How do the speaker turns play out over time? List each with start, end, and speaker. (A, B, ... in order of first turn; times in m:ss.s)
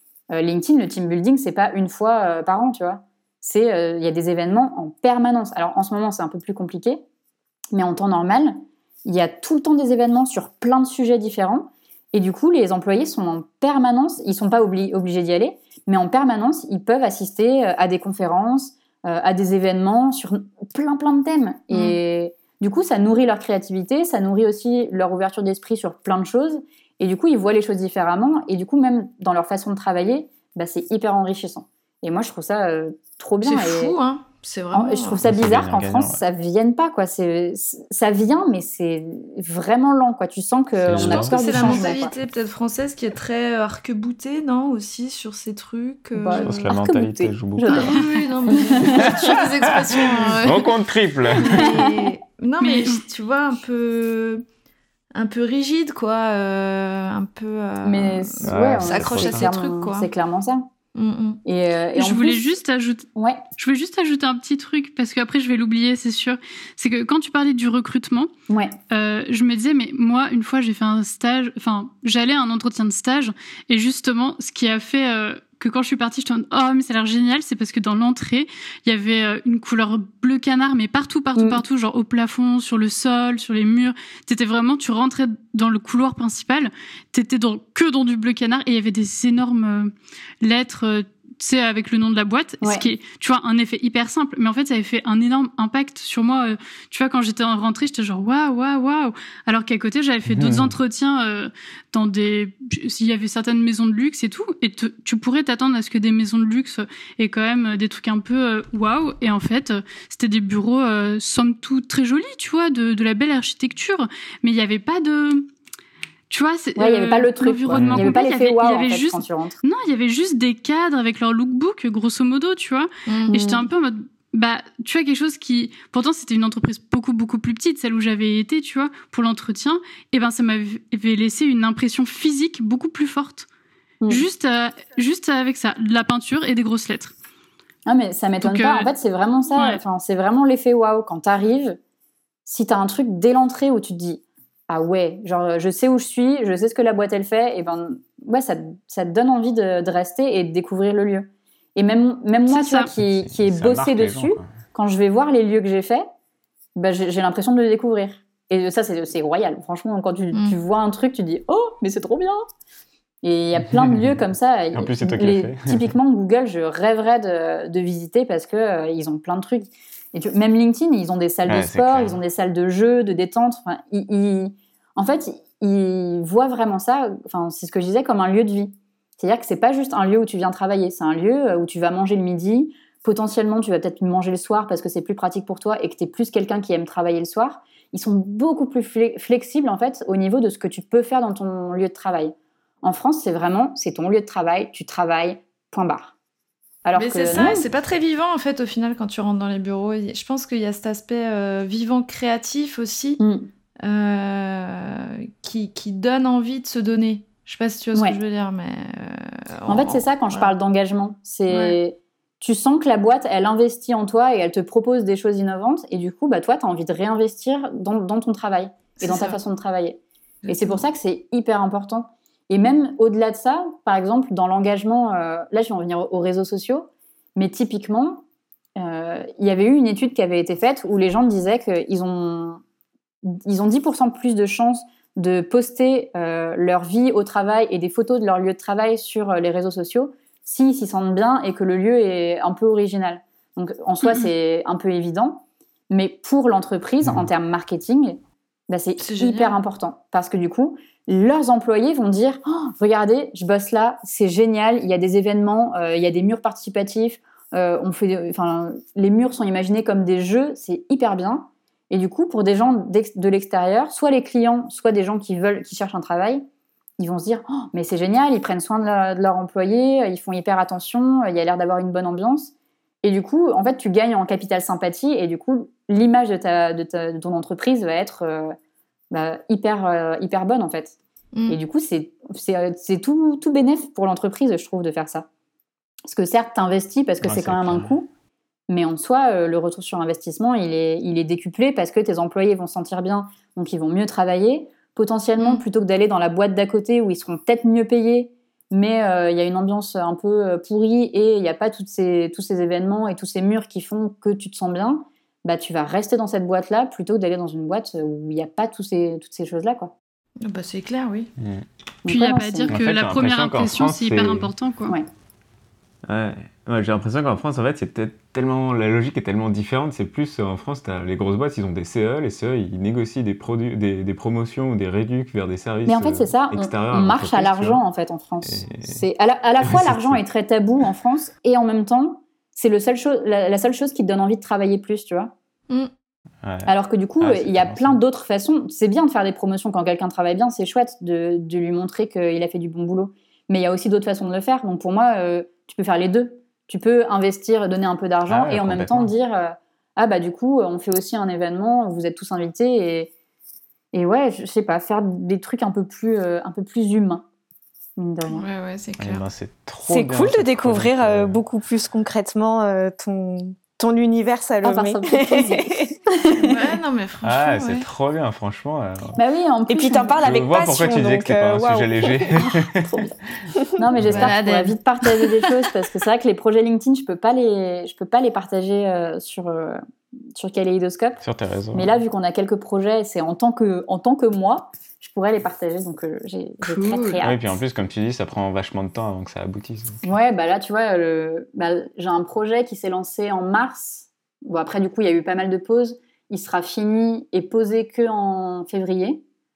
0:00.3-0:07.0 A
0:07.7-0:34.0 A
0:33.4-0:35.2 B
0:34.7-0:42.1 A
0:35.2-0:36.2 C
0:40.8-0:41.9 C
0:40.9-0:46.7 B
0:46.2-0:48.0 A
0:46.3-0:48.0 C
0:47.7-0:48.1 D
0:47.8-0:50.7 B
0:48.5-0:49.1 A
0:49.9-0:51.8 C
0:51.4-0:54.4 B
0:51.5-0:52.1 A
0:52.6-0:53.0 D
0:55.2-1:00.1 B
0:57.8-1:00.7 A
0:58.4-0:59.5 C
1:01.0-1:01.4 B
1:01.4-1:02.6 A
1:02.0-1:03.1 D
1:03.2-1:03.4 A
1:03.6-1:08.3 D
1:08.5-1:08.8 A
1:08.9-1:55.5 D
1:21.4-1:21.6 A
1:32.6-1:32.9 A
1:40.3-1:40.8 C
1:56.3-2:13.5 D
1:56.8-1:59.6 A
1:57.7-1:58.1 C
2:03.1-2:03.3 B
2:03.3-2:03.7 A
2:14.1-2:17.1 D
2:17.9-2:21.8 A
2:18.4-2:18.9 D
2:19.6-2:19.8 D
2:22.5-2:36.1 A
2:32.5-2:32.9 D
2:33.0-2:34.5 C
2:36.8-2:42.4 A
2:43.2-3:16.1 A
2:43.6-2:44.2 C
2:44.7-2:45.9 C
2:51.5-2:52.2 C
3:16.8-3:17.7 A
3:17.0-3:23.2 B
3:23.2-3:23.5 A
3:23.8-3:30.5 B
3:29.7-3:48.2 A
3:31.5-3:31.8 B
3:39.0-3:39.4 B
3:40.5-3:40.8 B
3:48.8-3:52.6 A
3:53.3-4:26.4 A
4:09.0-4:09.6 B
4:27.0-4:32.5 A
4:33.0-4:38.6 A
4:39.1-4:41.0 A
4:41.5-4:45.3 A
4:46.0-4:48.1 A
4:47.2-4:47.9 C
4:48.7-5:09.9 A
5:10.4-5:11.3 B
5:11.4-5:11.6 C
5:12.0-5:12.8 A
5:12.1-5:15.0 D
5:12.7-5:14.5 C
5:16.1-5:27.8 C
5:25.9-5:35.3 A
5:28.4-5:29.1 C
5:29.6-5:30.2 C
5:36.4-5:38.0 C
5:36.7-5:53.1 A
5:48.3-5:49.1 C
5:53.9-5:57.2 A
5:58.0-5:58.5 A
5:58.3-5:59.2 B
5:59.0-6:01.4 C
5:59.9-6:06.0 E
6:04.6-6:05.6 A
6:06.1-6:06.6 A
6:06.4-6:07.8 B
6:07.2-6:09.2 C
6:09.2-6:10.2 A
6:09.7-6:12.4 E
6:10.2-6:12.9 C
6:12.8-6:13.1 A
6:13.8-6:19.8 A
6:14.0-6:14.3 C
6:14.0-6:15.3 B
6:20.4-6:21.2 A
6:21.2-6:21.9 C
6:21.7-6:27.6 A
6:26.6-6:27.2 B
6:27.2-6:30.0 C
6:30.0-6:39.2 A